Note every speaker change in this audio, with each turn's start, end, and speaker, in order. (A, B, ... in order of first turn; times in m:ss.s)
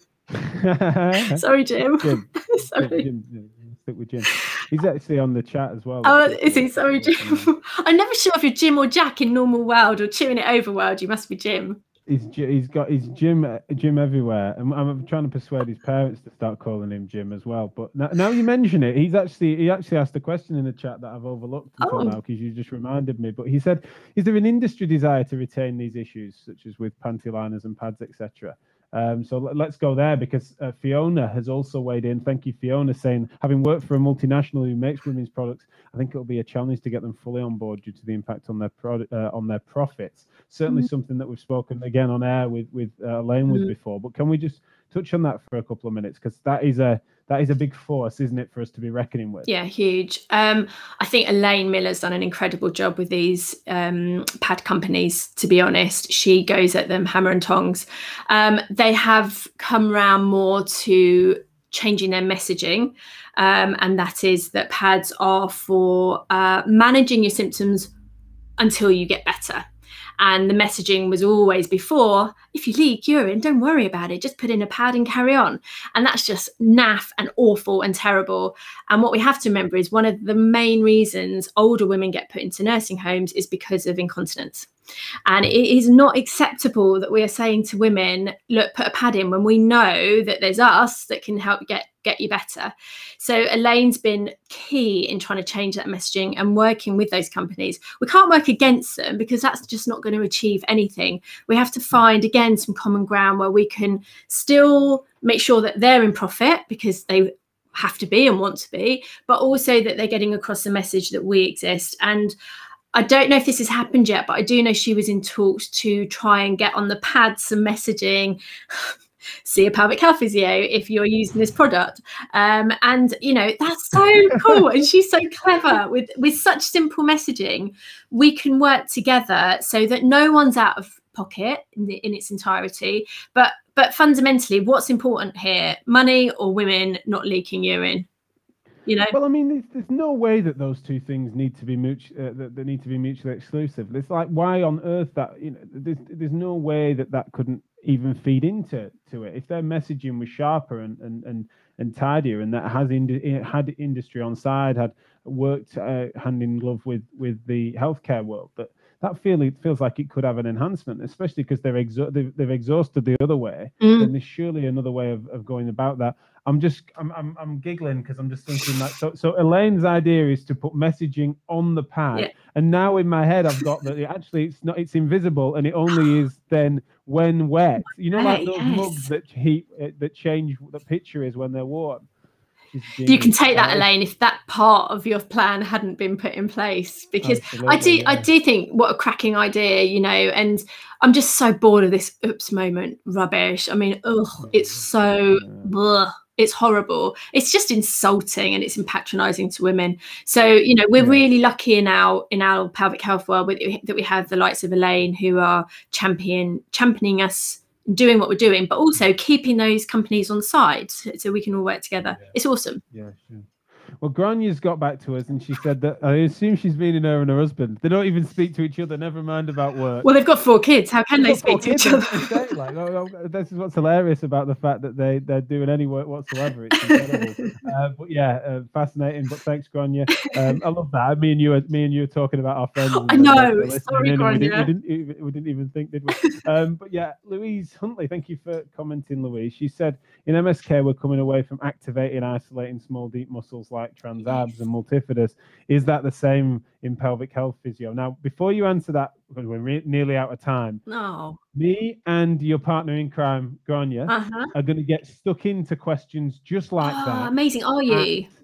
0:00.3-0:01.4 A
0:01.2-0:03.0 B
0:02.0-0:07.5 A
0:06.0-0:11.8 B
0:12.1-0:49.5 A
0:21.8-0:22.2 B
0:49.5-1:07.9 B
1:08.6-1:09.6 B
1:10.2-1:24.7 B
1:25.3-1:52.4 B
1:52.9-1:58.9 B
1:59.4-2:18.1 B
2:18.8-2:19.1 B
2:19.1-3:02.0 A
2:43.8-2:44.1 B
2:58.1-2:59.1 B
3:02.7-3:03.9 A
3:03.0-3:32.8 B
3:07.2-3:08.3 A
3:14.4-3:14.8 A
3:15.4-3:15.7 A
3:21.0-3:21.2 A
3:32.9-3:33.5 A
3:34.0-3:40.0 A
3:40.0-3:42.4 B
3:41.2-4:10.8 A
3:46.7-3:47.6 B
3:50.2-3:50.6 B
3:52.9-3:54.7 B
3:56.2-3:56.4 B
4:10.9-4:11.4 B
4:11.5-4:17.3 A
4:14.1-4:14.5 B
4:16.8-4:18.3 B
4:17.9-4:18.2 A